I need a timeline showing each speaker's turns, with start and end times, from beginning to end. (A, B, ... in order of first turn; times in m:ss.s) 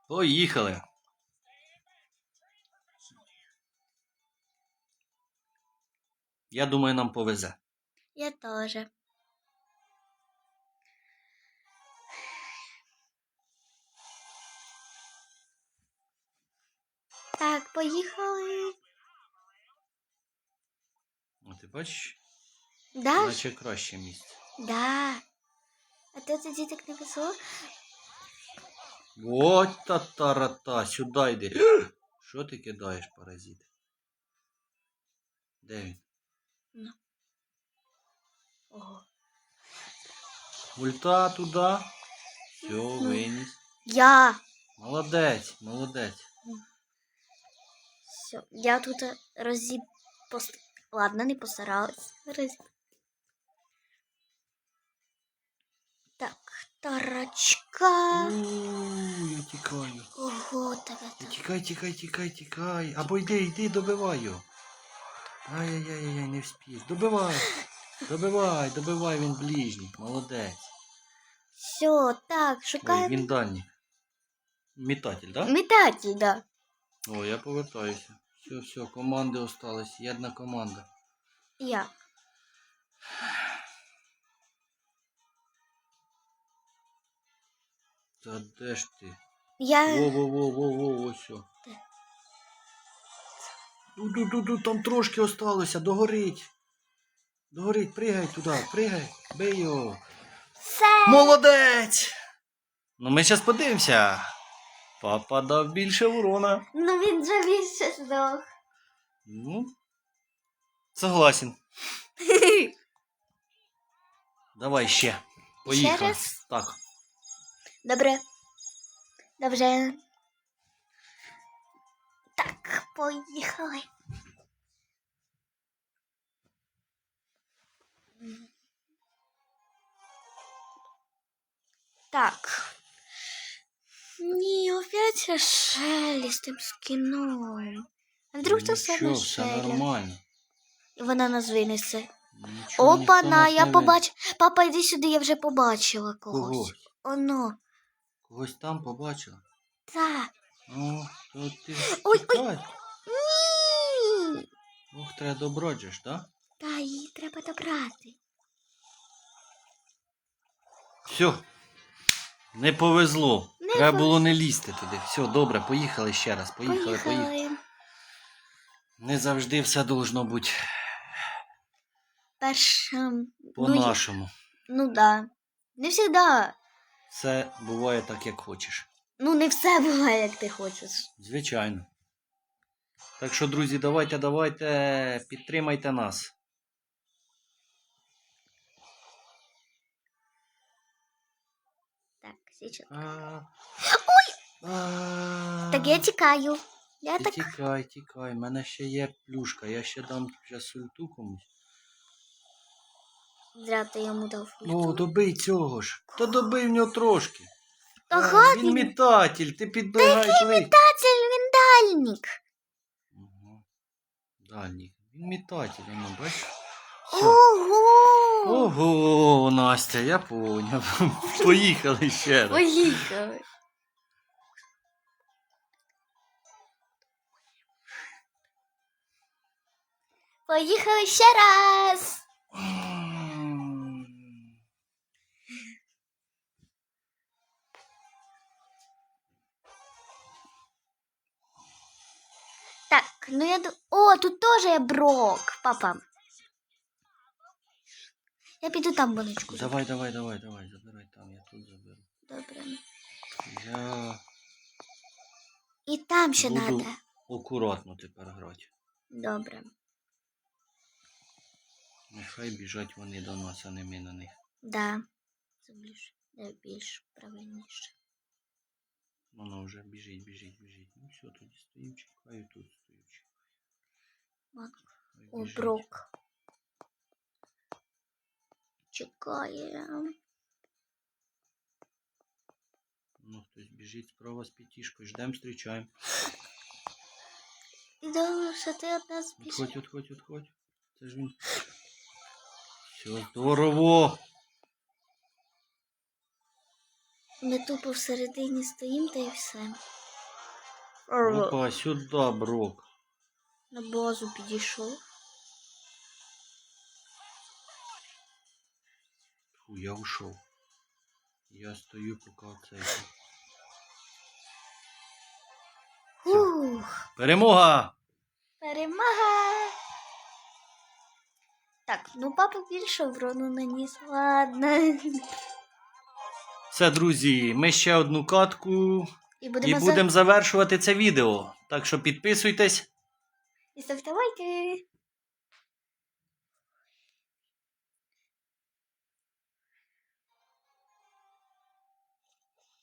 0:00.1-0:00.8 A
0:06.5-0:07.6 A
0:08.2-0:08.9 B
0:17.4-0:18.8 B
0:21.4-0:22.2 A
0:23.0-0:23.4 B
0:23.2-0:24.4 A
0:24.6-0:25.2 B
0:26.1-0:27.4 B
0:29.2-0:33.7 A
0:35.6-0:36.0 A
0:38.7-0:39.0 B
0:40.8-0:41.9 A
0:42.6-0:43.2 B
0:42.6-0:43.6 A
0:43.9-0:44.4 B
0:44.8-0:46.3 A
0:48.1-0:52.6 B
0:56.2-0:58.3 B
0:58.1-1:00.1 A
1:00.2-1:01.4 B
1:01.2-1:04.4 A
1:05.5-1:07.5 A
1:08.1-1:10.7 A
1:11.6-1:13.3 B
1:12.8-1:13.7 A
1:14.8-1:15.5 A
1:15.4-1:16.4 B
1:17.1-1:20.9 A
1:21.6-1:21.9 B
1:28.2-1:29.2 A
1:29.6-1:30.2 B
1:29.9-1:31.5 A
1:34.0-1:36.5 A
1:37.5-1:40.0 A
1:40.6-1:41.4 B
1:41.1-1:42.1 A
1:43.0-1:44.3 A
1:45.0-1:46.7 A
1:46.7-1:48.4 B
1:49.3-1:49.7 A
1:51.0-1:51.6 A
1:52.2-1:52.7 B
1:54.6-1:56.8 A
1:55.6-1:56.4 B
1:57.8-1:58.2 B
1:59.4-2:00.0 B
2:02.4-2:03.9 B
2:08.2-2:08.5 B
2:12.1-2:12.7 B
2:14.2-2:19.8 B
2:18.4-2:20.2 A
2:21.0-2:22.1 B
2:22.3-2:24.0 A
2:22.8-2:27.6 B
2:26.3-2:26.8 A
2:28.2-2:29.4 A
2:29.9-2:30.3 B
2:30.7-2:32.7 A
2:31.8-2:32.4 B
2:33.1-2:34.4 B
2:34.9-2:36.3 A
2:36.6-2:38.2 B
2:41.1-2:41.4 A
2:42.5-2:47.3 A
2:43.6-2:44.4 B
2:46.6-2:47.6 B
2:49.0-2:51.1 A
2:52.4-2:54.0 B
2:53.6-2:54.3 A
2:54.7-2:56.6 B
2:57.1-2:58.9 A
2:59.2-3:01.1 B
3:01.2-3:01.9 A
3:03.2-3:06.3 A
3:12.2-3:13.0 B
3:12.9-3:13.5 A
3:13.8-3:14.4 B
3:14.6-3:16.0 A
3:15.7-3:17.5 B
3:17.2-3:21.5 A
3:23.6-3:25.1 B
3:24.6-3:27.5 A
3:26.2-3:26.5 B
3:28.1-3:28.9 B
3:28.1-3:30.7 A
3:30.0-3:32.4 B
3:33.1-3:33.6 A
3:34.4-3:36.5 A
3:37.1-3:37.4 A
3:37.1-3:38.7 B
3:38.4-3:43.0 A
3:41.3-3:41.6 B
3:42.5-3:43.4 B
3:50.5-3:52.2 B
3:52.5-3:54.4 A
4:02.9-4:06.0 B
4:08.6-4:09.8 B
4:09.5-4:12.0 A
4:12.3-4:12.8 B
4:13.5-4:14.2 A
4:15.9-4:17.0 B
4:16.4-4:18.7 A
4:19.1-4:19.7 B
4:22.1-4:24.4 A
4:24.6-4:25.0 B
4:25.6-4:27.9 B
4:29.3-4:33.3 A
4:34.5-4:36.1 B
4:35.2-4:35.8 A
4:38.9-4:40.1 B
4:43.2-4:45.9 A
4:48.0-4:49.7 B
4:49.4-4:51.4 A
4:52.9-4:54.2 A
4:57.4-4:59.8 B
5:01.1-5:01.6 B
5:01.2-5:02.9 A
5:03.7-5:05.0 B
5:09.6-5:10.4 A
5:11.5-5:13.1 A
5:16.2-5:17.0 B
5:17.2-5:18.0 A
5:18.6-5:19.7 B
5:21.9-5:25.2 B
5:26.7-5:29.1 A
5:29.4-5:30.1 B
5:29.6-5:32.9 A
5:33.8-5:34.8 B